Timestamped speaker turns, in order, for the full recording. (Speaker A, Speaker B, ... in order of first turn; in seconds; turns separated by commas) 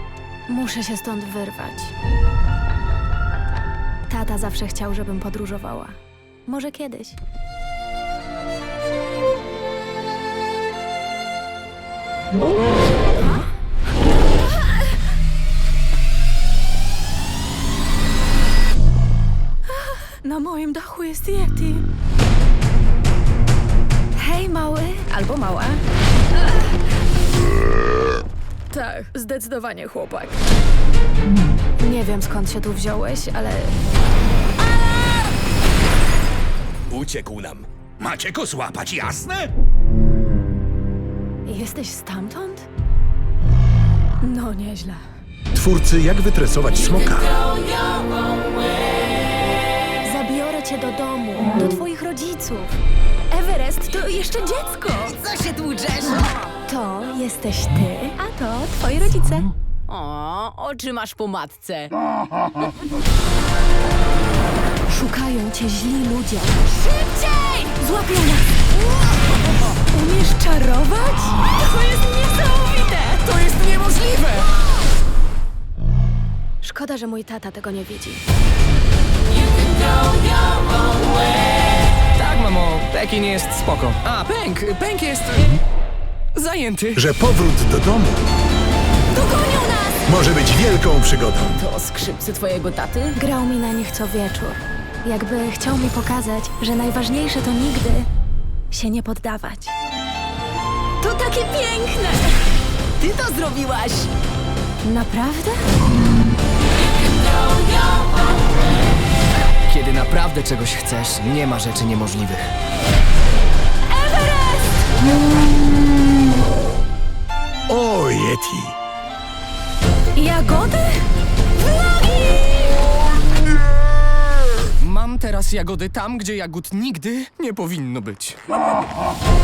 Speaker A: 0.5-1.9, Speaker A: 4.1-7.2, Speaker A: 19.8-21.9, Speaker A: 24.1-25.8, Speaker A: 28.7-30.4, Speaker A: 31.8-33.8, Speaker B: 36.9-39.4, Speaker A: 41.5-42.7, Speaker A: 44.2-45.0, Speaker C: 45.5-47.3, Speaker A: 50.0-52.7, Speaker A: 53.3-55.2, Speaker D: 55.1-56.4, Speaker A: 56.7-59.5, Speaker D: 59.9-61.9, Speaker A: 64.9-68.5, Speaker A: 69.9-73.2, Speaker E: 73.2-74.5, Speaker A: 76.6-78.2, Speaker E: 82.2-85.6, Speaker E: 86.4-87.0, Speaker C: 87.0-88.2, Speaker A: 89.1-90.0, Speaker C: 90.0-91.6, Speaker D: 91.5-93.1, Speaker A: 93.2-98.1, Speaker A: 98.7-99.7, Speaker A: 101.0-102.3, Speaker D: 103.0-104.1, Speaker A: 104.8-105.6, Speaker E: 109.7-112.5, Speaker A: 113.9-114.7, Speaker C: 117.7-118.7, Speaker A: 120.2-121.0, Speaker E: 124.8-128.4